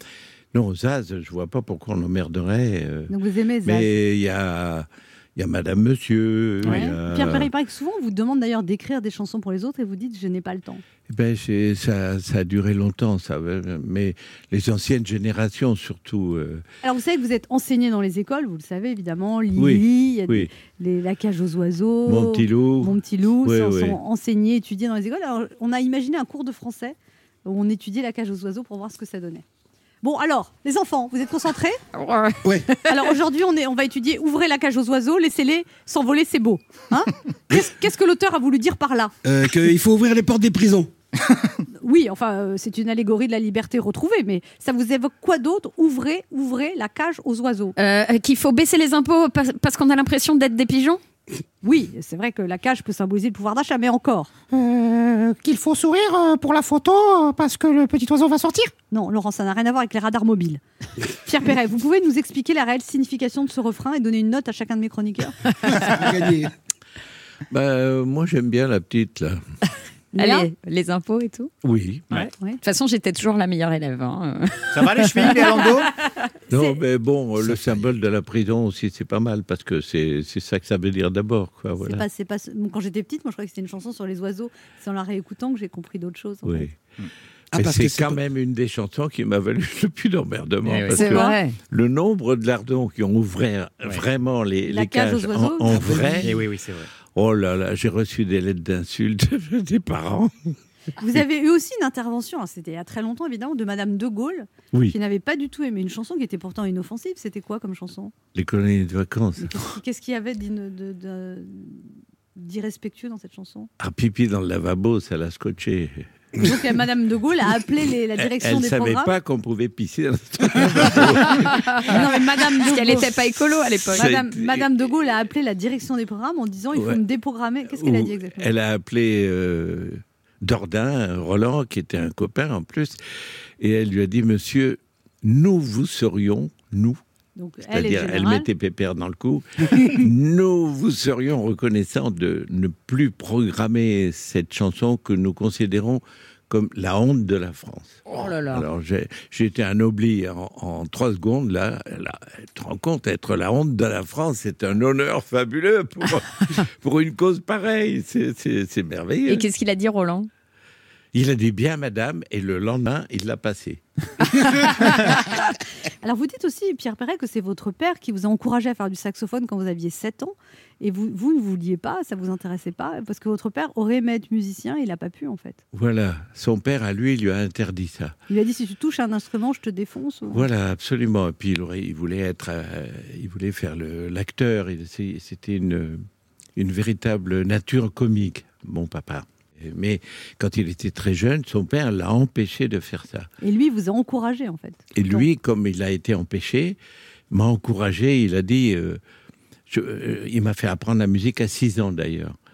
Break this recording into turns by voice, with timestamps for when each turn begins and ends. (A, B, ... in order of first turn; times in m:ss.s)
0:00.5-0:07.5 A
0:03.1-0:03.9 B
0:06.6-0:10.8 B
0:11.1-0:16.6 A
0:16.8-0:29.4 B
0:19.6-0:20.5 A
0:22.1-0:24.0 A
0:30.0-0:31.8 B
0:31.9-0:33.1 C
0:32.9-0:39.1 B
0:39.2-0:40.9 D
0:41.8-0:47.8 B
0:47.8-0:51.0 C
0:51.6-0:54.3 B
0:54.5-0:58.7 E
0:58.9-1:00.6 B
1:01.2-1:05.4 B
1:05.7-1:06.5 D
1:07.5-1:09.4 A
1:10.1-1:10.5 B
1:10.2-1:11.5 C
1:11.6-1:12.3 A
1:12.2-1:16.1 C
1:14.7-1:15.9 F
1:16.5-1:22.0 A
1:16.5-1:16.8 B
1:21.8-1:26.7 B
1:26.4-1:26.8 A
1:27.5-1:28.2 D
1:27.6-1:36.5 A
1:30.6-1:31.0 F
1:30.9-1:31.6 C
1:31.0-1:31.4 B
1:34.7-1:36.3 B
1:35.7-1:36.9 F
1:37.1-1:40.5 A
1:41.0-1:48.1 B
1:44.7-1:45.0 A
1:48.4-1:49.6 A
1:49.4-1:53.7 B
1:53.8-1:56.1 A
1:56.4-1:59.1 B
1:58.2-2:01.9 A
2:01.5-2:02.0 C
2:01.8-2:03.3 B
2:02.6-2:04.2 C
2:03.9-2:04.7 A
2:03.9-2:08.5 B
2:06.7-2:07.0 A
2:07.7-2:13.0 A
2:13.6-2:17.0 A
2:17.4-2:18.5 B
2:17.6-2:39.5 A
2:28.1-2:28.7 C
2:39.3-2:40.3 C
2:41.1-2:43.8 A
2:44.3-2:45.2 C
2:46.0-2:55.6 B
2:55.7-2:58.2 A
2:58.3-3:00.5 B
3:00.3-3:06.0 A
3:06.6-3:13.3 A
3:13.4-3:15.3 B
3:15.0-3:16.8 A
3:17.3-3:19.0 A
3:19.7-3:22.4 A